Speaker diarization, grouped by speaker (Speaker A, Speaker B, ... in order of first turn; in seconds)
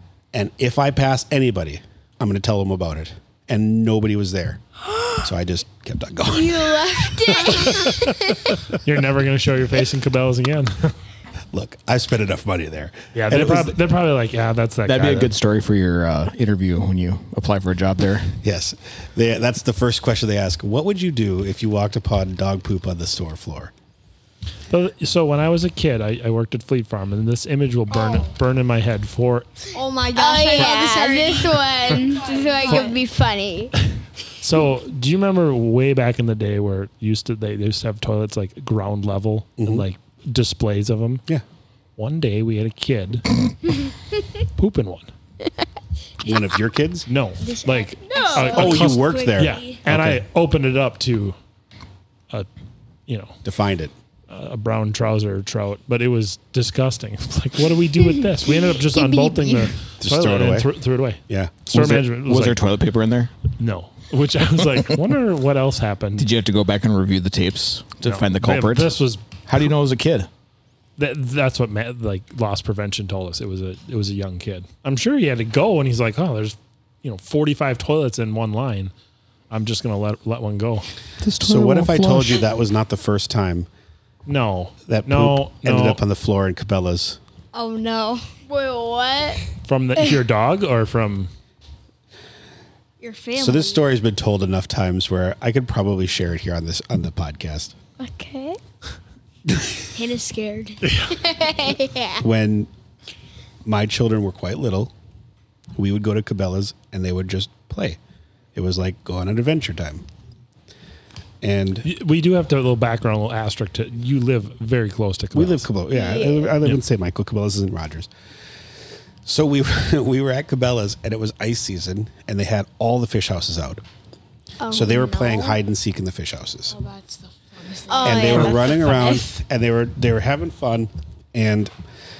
Speaker A: 0.3-4.6, 5.2-7.6, 11.5-13.8, 18.4-23.7, 39.6-39.9, 46.2-47.1, 48.5-50.2, 53.4-53.9, 60.0-60.7, 61.3-62.0, 81.4-83.7, 84.9-87.2, 93.4-97.8, 102.2-102.7, 103.6-104.9, 105.8-108.0, 108.5-110.1, 111.4-111.9, 115.3-118.1, 119.2-123.8, 124.7-126.8, 128.0-131.7
Speaker B: 6.3-8.6, 30.1-33.7, 48.1-48.6, 58.9-59.7, 88.5-89.4, 98.0-98.6, 101.1-102.2, 115.9-116.5, 124.6-125.5, 127.9-129.2
Speaker C: 8.7-11.0, 13.1-15.3, 24.7-29.6, 34.4-41.2, 42.0-43.3, 44.6-45.1, 47.1-51.4, 53.1-53.4, 54.3-62.6, 63.6-66.3, 68.0-69.2, 71.0-78.9, 79.5-80.9, 84.3-86.0, 89.6-91.3, 111.8-115.7
Speaker D: 14.9-18.4, 61.7-63.3, 66.2-69.0, 69.5-70.3, 81.2-82.4
Speaker E: 27.9-28.3, 29.7-33.0, 47.4-49.8, 87.5-88.3, 93.0-93.8, 99.9-100.9, 126.7-129.1